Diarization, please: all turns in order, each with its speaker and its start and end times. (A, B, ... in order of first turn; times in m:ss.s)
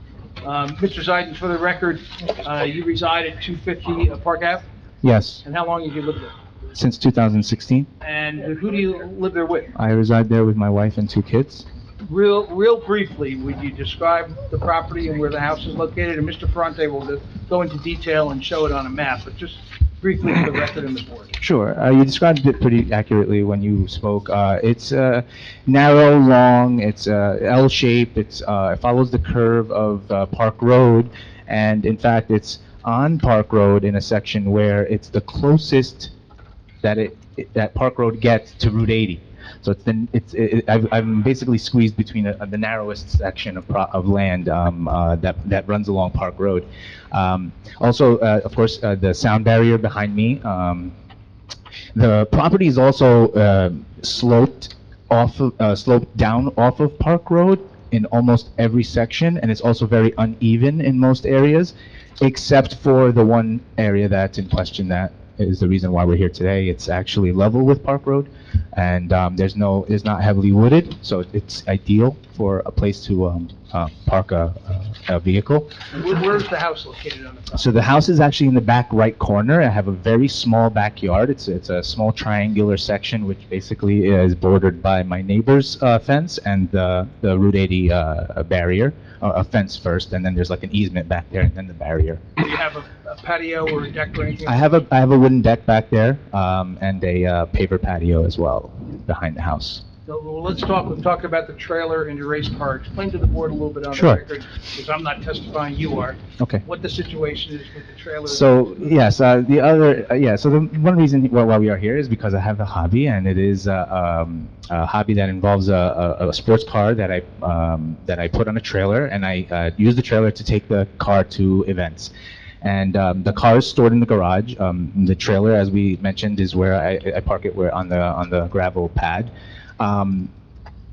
0:00.4-0:04.7 A
0:05.0-0:05.4 B
0:05.4-0:06.4 A
0:06.7-0:07.9 B
0:08.0-0:09.7 A
0:09.7-0:11.6 B
0:12.0-0:21.4 A
0:21.4-0:36.1 B
0:36.8-0:50.9 B
0:51.9-1:15.8 B
1:16.0-1:17.7 A
1:17.5-1:32.2 B
1:32.4-1:34.6 A
1:34.4-1:39.8 B
1:40.0-1:48.8 A
1:43.9-1:44.2 B
1:48.2-2:02.1 B
2:02.6-2:10.3 B